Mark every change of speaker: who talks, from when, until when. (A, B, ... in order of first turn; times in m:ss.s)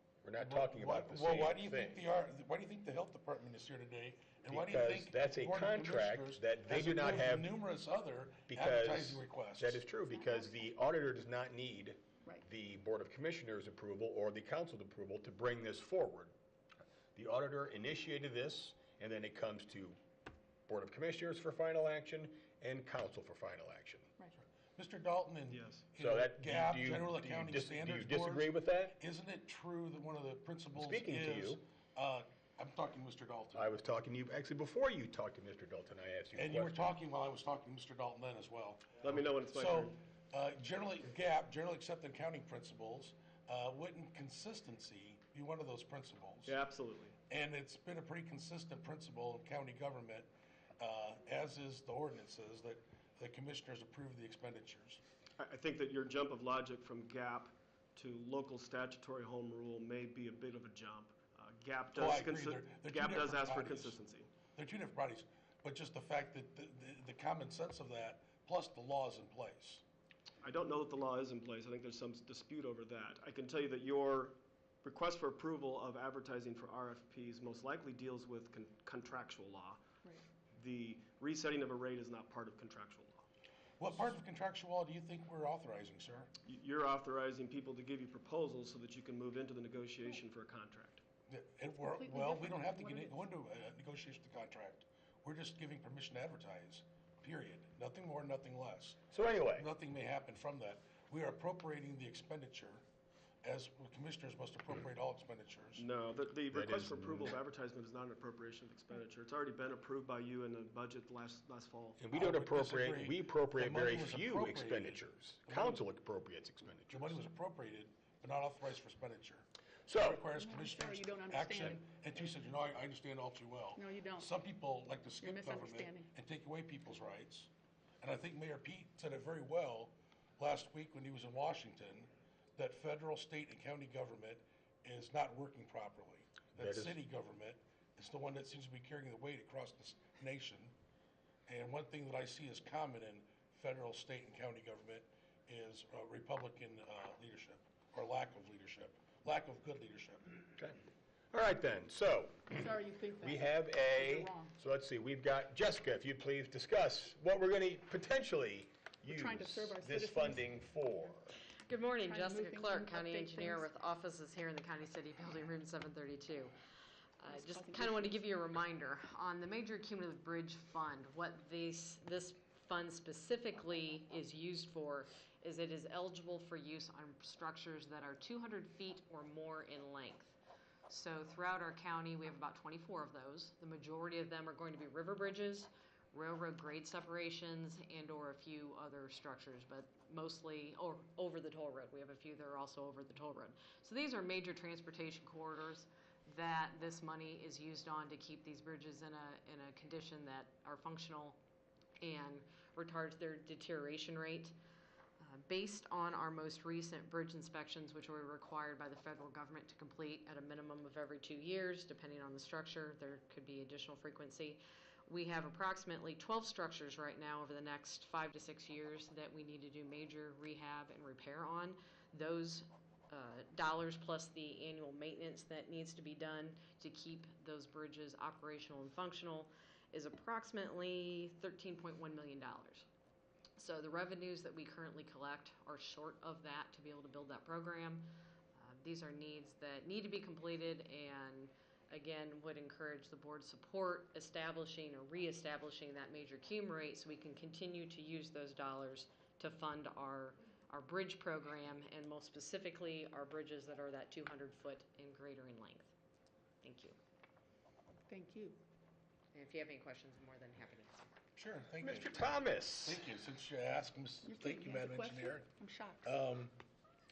0:00.2-0:02.0 A
0:00.4-0:09.8 B
0:04.5-0:07.5 A
0:08.5-0:16.3 A
0:17.1-0:20.0 A
0:20.7-0:24.1 A
0:24.7-0:33.8 B
0:25.5-0:25.8 C
0:26.0-0:29.0 A
0:30.7-0:31.6 A
0:33.5-0:36.9 A
0:36.4-0:46.5 B
0:39.0-0:40.0 C
0:46.4-0:47.2 C
0:47.3-0:55.0 B
0:55.4-1:04.3 C
1:02.0-1:03.9 B
1:04.5-1:09.8 B
1:10.4-1:19.9 C
1:20.5-1:23.2 C
1:23.8-1:26.3 B
1:26.4-1:31.0 C
1:31.3-1:42.8 B
1:32.0-1:33.2 D
1:39.1-1:39.7 A
1:43.4-1:45.8 B
1:45.8-1:52.0 C
1:46.5-1:47.4 A
1:52.0-1:57.2 A
1:52.1-1:55.8 B
1:56.9-1:59.4 B
1:59.9-2:00.2 A
2:00.0-2:07.5 B
2:00.3-2:01.9 D
2:03.8-2:04.3 D
2:05.2-2:06.1 D
2:08.0-2:20.7 B
2:16.6-2:16.9 A
2:21.5-2:30.4 B
2:31.3-2:32.6 A
2:32.5-2:34.5 D
2:33.2-2:41.3 A
2:39.1-2:40.4 D
2:41.6-2:46.5 E
2:42.0-2:43.7 D
2:47.2-3:00.4 E
2:47.3-2:48.2 D
3:00.9-3:21.4 E
3:22.0-3:24.5 E
3:25.2-3:52.8 E
3:53.6-4:15.9 E
4:16.6-4:17.0 E
4:18.1-4:18.6 D
4:19.3-4:21.1 E
4:21.4-4:25.5 B
4:21.8-4:23.0 A
4:24.2-4:26.0 D
4:26.0-4:26.6 B